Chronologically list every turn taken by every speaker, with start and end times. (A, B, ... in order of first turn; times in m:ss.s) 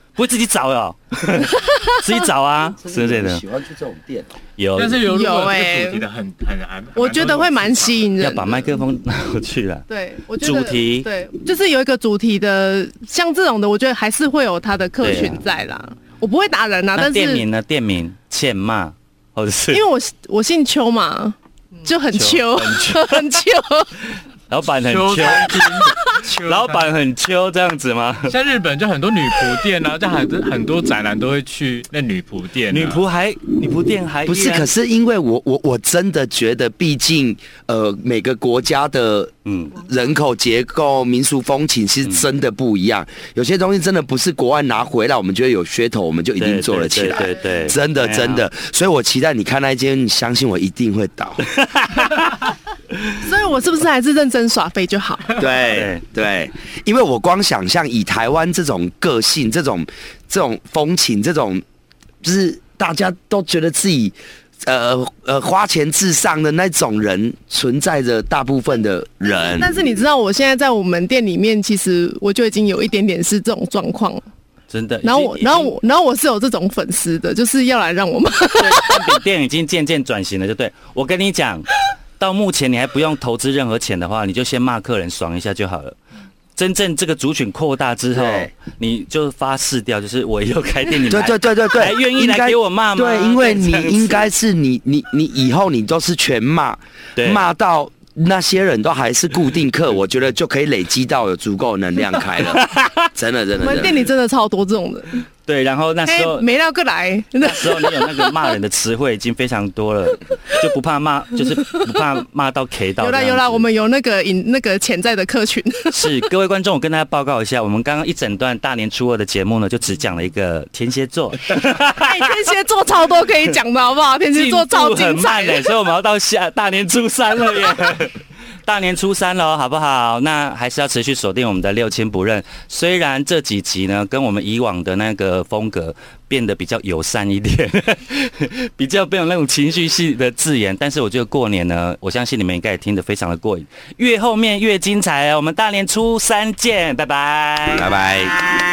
0:00.2-0:03.4 A
0:02.8-0:04.4 B
0:04.6-0:05.0 A
0:04.7-0:08.1 C
0:05.1-0:06.0 D
0:07.0-0:08.8 D
0:08.2-0:09.8 A
0:09.9-0:17.4 D
0:10.4-0:11.1 A
0:15.0-0:15.4 A
0:16.9-0:19.8 A
0:19.7-0:24.0 D
0:22.1-0:23.4 A
0:24.5-0:28.3 A
0:24.6-0:26.9 C
0:25.8-0:26.2 D
0:28.3-0:33.0 C
0:32.7-0:34.7 A
0:34.3-0:51.4 B
0:39.4-0:39.8 A
0:46.4-0:48.5 A
0:51.6-0:52.4 A
0:53.2-0:55.4 D
0:55.4-1:01.6 B
0:55.7-0:56.0 A
1:02.2-1:09.7 B
1:09.4-1:14.2 D
1:14.7-1:15.7 A
1:15.0-1:19.2 D
1:18.6-1:26.0 A
1:26.6-1:34.3 A
1:28.1-1:28.5 B
1:31.1-1:44.0 B
1:37.2-1:37.4 A
1:42.4-1:43.1 A
1:43.6-1:45.2 D
1:45.4-1:46.5 A
1:46.0-1:48.5 D
1:47.4-1:53.6 A
1:53.0-1:56.1 D
1:55.9-2:02.3 A
2:01.9-2:05.7 D
2:04.3-2:28.0 A
2:27.7-2:28.6 B